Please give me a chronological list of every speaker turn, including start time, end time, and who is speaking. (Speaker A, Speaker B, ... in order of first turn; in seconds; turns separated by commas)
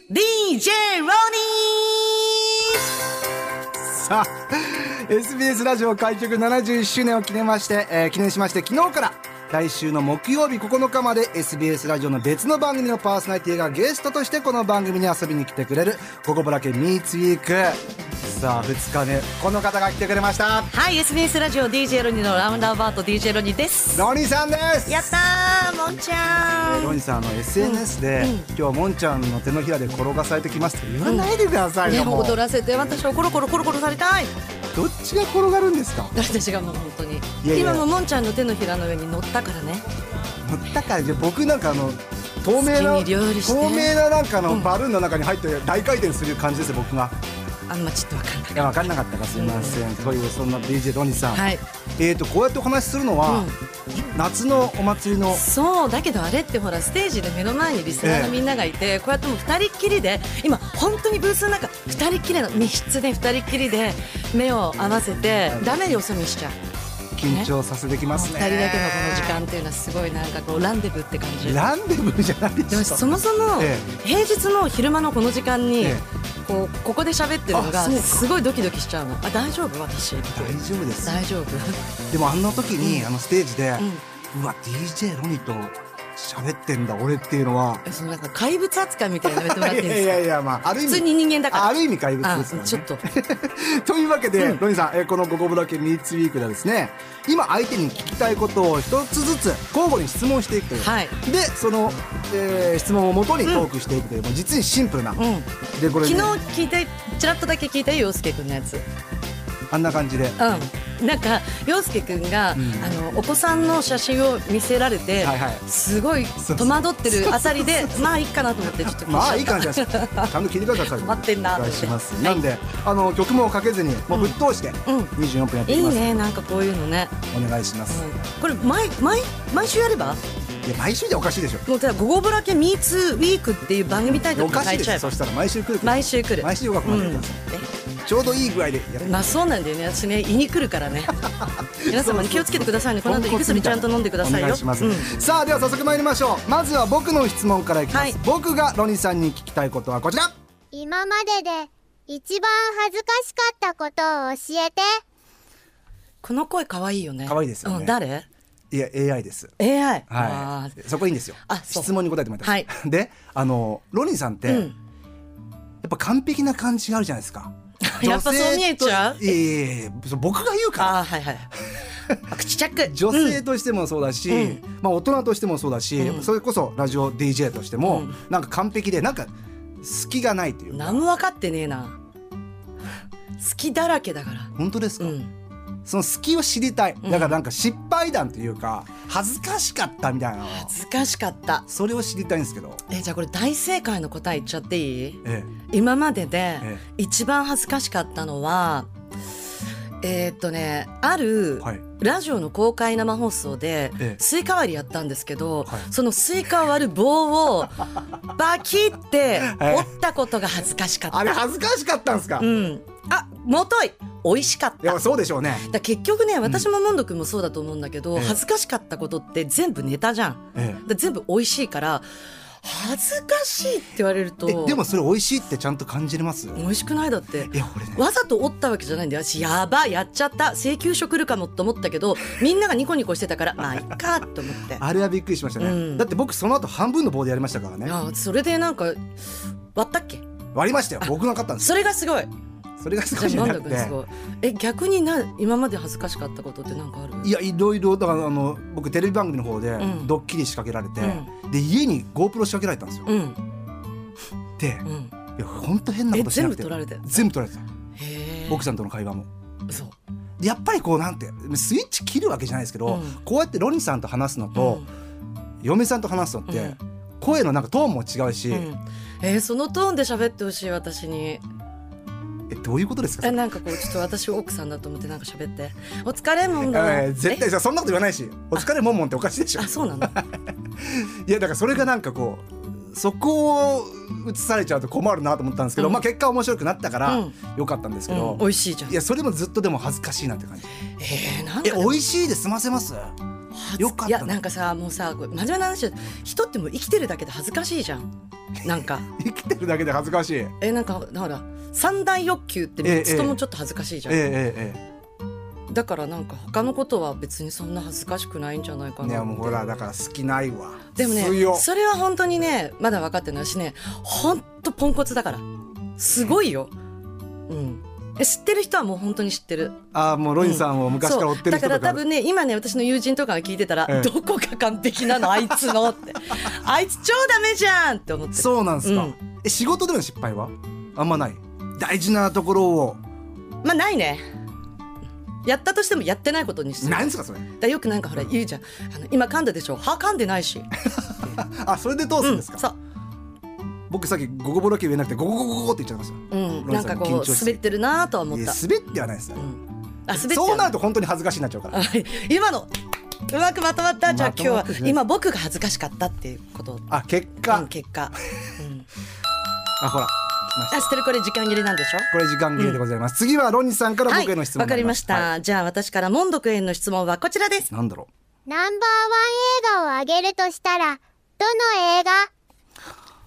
Speaker A: 0.1-2.9, Speaker B: 3.9-20.7, Speaker A: 20.7-24.1, Speaker B: 23.9-25.1, Speaker A: 24.9-27.0, Speaker B: 26.6-32.4, Speaker A: 27.6-28.5, Speaker A: 31.0-31.3, Speaker A: 31.8-34.3, Speaker B: 34.7-36.1, Speaker A: 36.1-39.9, Speaker B: 37.4-37.9, Speaker B: 40.4-47.2, Speaker A: 42.6-44.0, Speaker A: 44.5-44.7, Speaker A: 47.7-49.8, Speaker B: 48.5-51.5, Speaker A: 51.3-51.6, Speaker B: 52.0-53.5, Speaker A: 53.2-53.5, Speaker B: 54.1-55.4, Speaker A: 55.3-66.6, Speaker B: 58.0-58.3, Speaker B: 67.2-69.4, Speaker A: 68.1-71.6, Speaker B: 71.4-73.9, Speaker A: 72.7-81.8, Speaker B: 75.8-76.0, Speaker B: 77.5-78.3, Speaker B: 80.3-81.2, Speaker B: 82.1-87.8, Speaker A: 82.8-83.1, Speaker A: 83.8-84.0, Speaker A: 87.8-90.2, Speaker B: 89.2-105.2, Speaker A: 90.8-93.0, Speaker A: 100.8-101.2, Speaker A: 105.2-108.9, Speaker B: 105.8-106.4, Speaker B: 109.7-110.4, Speaker A: 110.4-122.4, Speaker B: 112.5-113.0, Speaker B: 115.2-115.6, Speaker B: 116.4-118.0, Speaker B: 118.8-126.2, Speaker A: 124.1-125.1, Speaker A: 125.7-127.2, Speaker B: 127.3-128.0, Speaker A: 127.9-130.2, Speaker B: 130.6-131.7, Speaker A: 131.7-135.2, Speaker B: 134.1-137.4, Speaker A: 135.8-137.7, Speaker B: 138.0-139.3, Speaker A: 139.0-141.2, Speaker B: 141.3-150.3, Speaker A: 141.9-145.2, Speaker A: 147.9-148.2, Speaker C: 150.7-155.0, Speaker A: 156.2-158.3, Speaker B: 157.2-158.0, Speaker B: 158.7-159.5, Speaker A: 159.6-160.8, Speaker B: 160.1-164.7, Speaker A: 161.5-162.7, Speaker A: 164.5-164.8, Speaker B: 165.8-171.0, Speaker A: 167.8-169.4, Speaker A: 170.8-171.5, Speaker B: 171.6-172.3, Speaker A: 172.3-173.4, Speaker B: 172.8-179.3, Speaker A: 174.3-174.6, Speaker A: 176.0-176.3, Speaker A: 177.8-178.2, Speaker B: 179.8-181.0, Speaker A: 180.7-182.0, Speaker A: 183.4-185.3, Speaker B: 184.6-185.2, Speaker B: 185.8-190.7, Speaker A: 187.0-187.4, Speaker A: 190.5-191.7, Speaker B: 191.7-192.8, Speaker A: 192.9-198.9, Speaker B: 195.2-195.5, Speaker A: 200.0-211.4, Speaker B: 209.4-209.9, Speaker B: 211.1-212.5, Speaker A: 212.4-215.0, Speaker B: 214.8-215.7, Speaker A: 215.6-222.1, Speaker B: 218.2-218.4, Speaker B: 220.6-220.8, Speaker A: 222.6-224.8, Speaker B: 224.4-226.6, Speaker A: 226.6-234.8, Speaker B: 227.5-228.1, Speaker B: 234.8-238.0, Speaker A: 235.6-236.1, Speaker A: 237.8-239.1, Speaker A: 239.8-240.2, Speaker B: 240.5-241.7, Speaker A: 241.0-242.3, Speaker B: 242.8-244.0, Speaker A: 243.2-247.3, Speaker B: 247.2-253.1, Speaker A: 249.8-250.1, Speaker A: 251.0-251.3, Speaker A: 253.1-253.4, Speaker B: 254.6-257.7, Speaker A: 254.8-255.1, Speaker A: 256.1-257.3, Speaker A: 258.0-258.7, Speaker B: 258.5-259.3, Speaker A: 259.7-260.0, Speaker B: 260.4-264.9, Speaker A: 262.9-263.2, Speaker A: 264.5-264.9, Speaker B: 265.6-268.7, Speaker A: 266.5-266.8, Speaker A: 268.5-271.4, Speaker B: 272.5-274.0, Speaker A: 273.2-277.4, Speaker B: 276.6-290.7, Speaker A: 279.6-280.2, Speaker A: 285.8-286.0, Speaker A: 287.1-287.4, Speaker A: 288.1-289.0, Speaker A: 291.0-292.0, Speaker B: 291.6-293.2, Speaker A: 293.5-298.1, Speaker B: 293.8-294.4, Speaker B: 298.6-300.6, Speaker A: 298.6-299.1, Speaker A: 300.6-304.3, Speaker B: 302.8-303.4, Speaker B: 304.1-304.8, Speaker A: 305.7-309.6, Speaker B: 309.0-311.7, Speaker A: 311.0-315.4, Speaker A: 316.0-316.7, Speaker A: 317.5-319.8, Speaker B: 319.9-322.0, Speaker A: 320.4-329.1, Speaker B: 328.4-333.0, Speaker A: 333.6-334.3, Speaker A: 335.4-340.7, Speaker B: 336.8-337.5, Speaker B: 341.0-342.6, Speaker A: 342.2-342.8, Speaker B: 343.9-347.7, Speaker A: 346.3-348.6, Speaker B: 348.3-349.5, Speaker A: 349.4-350.8, Speaker B: 350.1-351.8, Speaker A: 351.7-352.8, Speaker A: 353.3-356.9, Speaker B: 354.1-355.0, Speaker B: 356.9-357.7, Speaker A: 357.4-358.9, Speaker B: 359.8-360.9, Speaker A: 360.7-362.8, Speaker B: 362.1-365.3, Speaker A: 364.1-367.7, Speaker B: 367.7-368.1, Speaker C: 368.5-372.3